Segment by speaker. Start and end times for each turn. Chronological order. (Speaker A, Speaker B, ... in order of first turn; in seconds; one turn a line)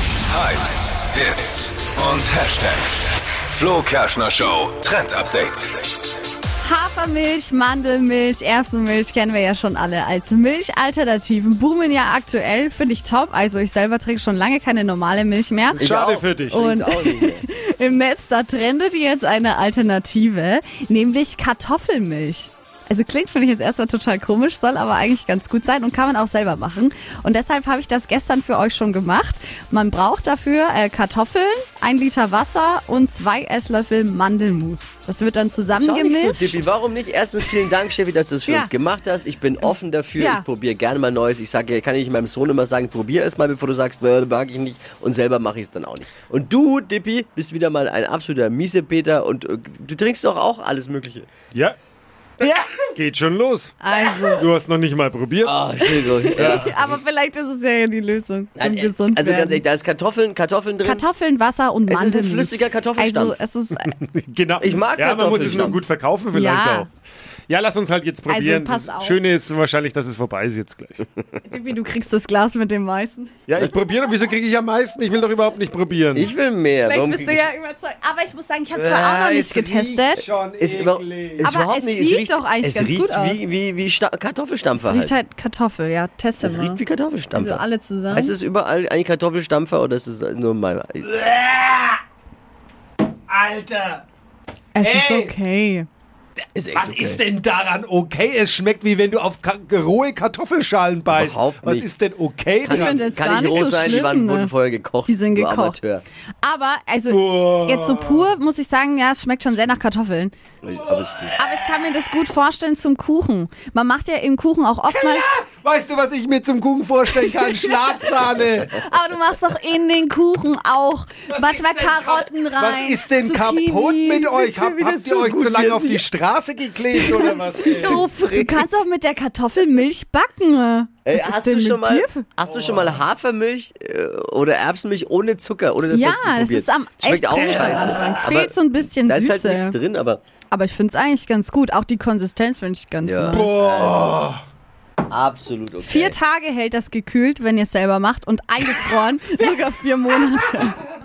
Speaker A: 0.3-5.8
Speaker B: 6.6-15.8
Speaker C: 15.8-17.4
Speaker D: 15.8-16.6
Speaker B: 16.5-36.6
Speaker C: 35.7-51.3
Speaker B: 40.2-40.4
Speaker B: 52.4-52.9
Speaker D: 52.9-53.8
Speaker B: 53.8-54.4
Speaker D: 54.3-55.6
Speaker C: 55.4-57.0
Speaker B: 55.8-59.6
Speaker C: 58.6-61.0
Speaker B: 60.8-63.9
Speaker C: 61.9-63.4
Speaker D: 63.9-66.9
Speaker C: 64.6-65.8
Speaker B: 66.3-66.9
Speaker D: 67.5-71.1
Speaker B: 68.3-69.2
Speaker B: 71.4-73.3
Speaker D: 73.5-76.3
Speaker C: 76.1-77.5
Speaker B: 76.8-80.2
Speaker D: 78.7-81.5
Speaker C: 80.6-85.1
Speaker B: 81.4-83.4
Speaker B: 84.8-88.3
Speaker C: 86.4-91.1
Speaker D: 91.1-92.0
Speaker D: 93.3-94.0
Speaker B: 94.7-95.9
Speaker D: 94.8-95.3
Speaker C: 96.5-97.2
Speaker D: 96.8-104.0
Speaker C: 101.1-101.9
Speaker C: 102.6-106.0
Speaker B: 102.7-104.5
Speaker B: 105.0-105.8
Speaker B: 106.4-110.3
Speaker D: 107.1-108.3
Speaker C: 110.6-111.4
Speaker D: 110.8-111.3
Speaker B: 111.4-115.3
Speaker D: 114.9-118.8
Speaker B: 117.1-126.0
Speaker D: 121.3-128.1
Speaker C: 125.0-125.9
Speaker B: 126.9-132.3
Speaker C: 127.7-128.9
Speaker C: 131.1-138.5
Speaker D: 132.4-133.0
Speaker B: 135.9-139.8
Speaker D: 137.3-138.2
Speaker C: 139.1-140.2
Speaker B: 140.5-143.5
Speaker C: 143.0-144.1
Speaker D: 143.3-144.4
Speaker C: 145.1-146.2
Speaker B: 145.8-150.8